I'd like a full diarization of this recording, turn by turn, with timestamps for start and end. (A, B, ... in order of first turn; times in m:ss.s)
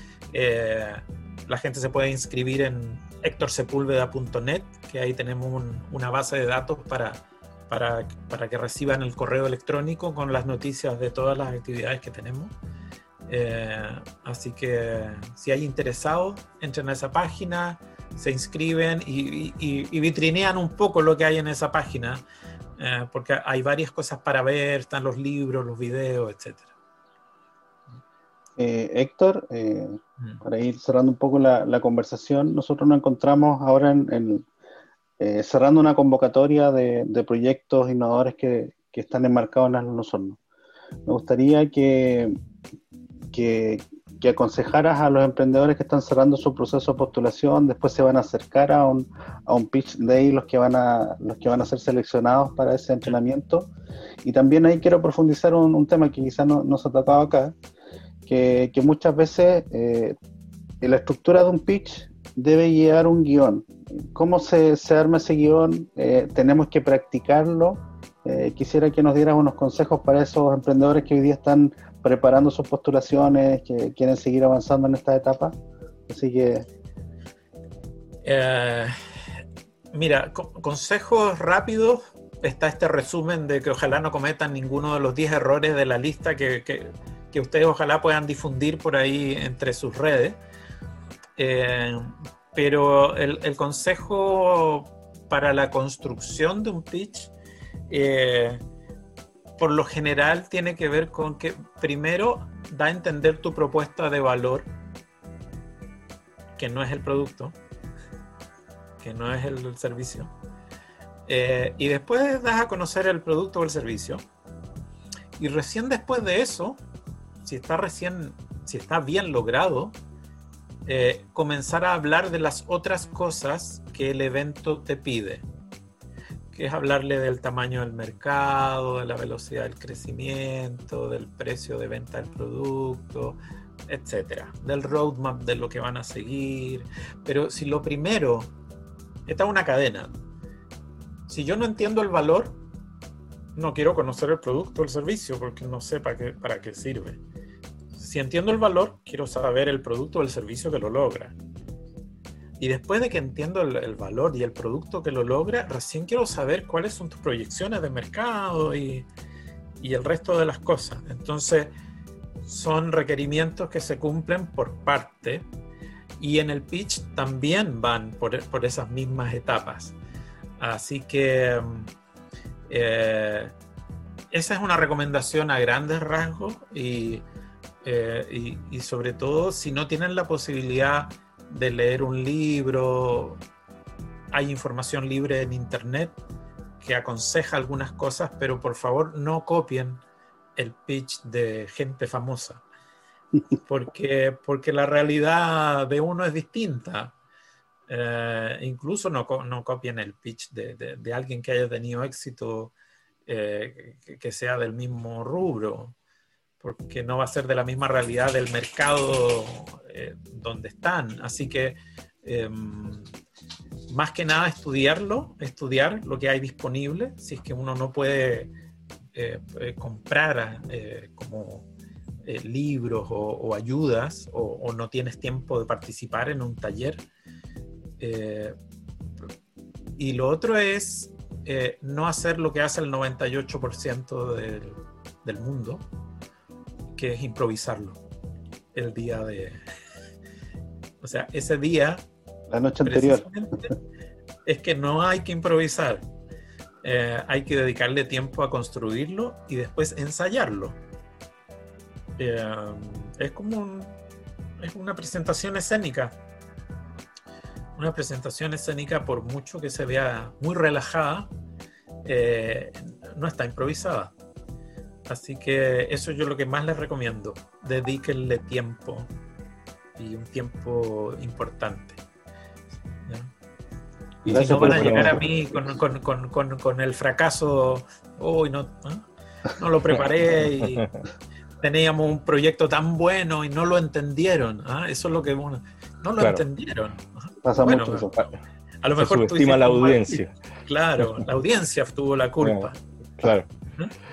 0:00.3-0:12.5 A
0:13.3-0:22.2 A
0:22.8-0:26.7 A
0:28.6-0:34.5 B
0:35.2-0:40.4 B
0:41.1-0:42.4 B
0:43.3-0:53.7 B
0:54.2-0:57.6 B
0:58.3-1:00.2 B
1:00.8-1:15.6 B
1:16.1-1:16.7 B
1:18.2-1:19.0 A
1:19.9-1:30.4 A
1:31.4-1:37.3 A
1:37.9-1:38.6 A
1:39.6-1:44.7 A
1:46.6-1:47.6 A
1:49.0-1:50.3 A
1:51.3-1:54.2 A
1:55.4-1:56.8 A
1:57.4-2:00.0 A
2:00.9-2:05.5 A
2:06.5-2:18.5 A
2:19.3-2:20.2 A
2:21.3-2:22.6 A
2:23.6-2:27.2 A
2:27.9-2:31.4 A
2:32.6-2:39.1 A
2:39.8-2:41.7 A
2:42.4-2:45.5 A
2:46.2-2:50.0 A
2:50.6-2:51.9 A
2:52.7-2:53.5 A
2:54.3-2:57.2 A
2:57.8-3:03.4 A
3:04.3-3:06.2 A
3:06.8-3:10.0 A
3:10.6-3:12.6 A
3:13.6-3:17.1 A
3:17.9-3:22.7 A
3:23.3-3:26.0 A
3:26.6-3:33.1 A
3:33.9-3:38.5 A
3:39.2-3:41.7 A
3:42.2-3:47.0 A
3:48.0-3:48.6 A
3:50.0-3:55.8 A
3:57.0-3:58.0 A
3:58.7-3:59.6 A
4:01.0-4:02.0 A
4:02.5-4:03.3 B
4:02.8-4:03.7 A
4:04.4-4:06.0 A
4:06.8-4:10.8 A
4:12.2-4:14.0 A
4:14.6-4:16.2 A
4:17.8-4:21.3 A
4:22.0-4:24.1 A
4:25.1-4:29.1 A
4:30.0-4:32.0 A
4:34.2-4:35.2 C
4:34.3-4:35.6 B
4:34.3-4:40.9 A
4:40.6-4:40.9 C
4:41.6-4:52.8 A
4:46.2-4:46.4 C
4:47.4-4:48.1 B
4:49.0-4:50.3 C
4:52.4-4:53.5 C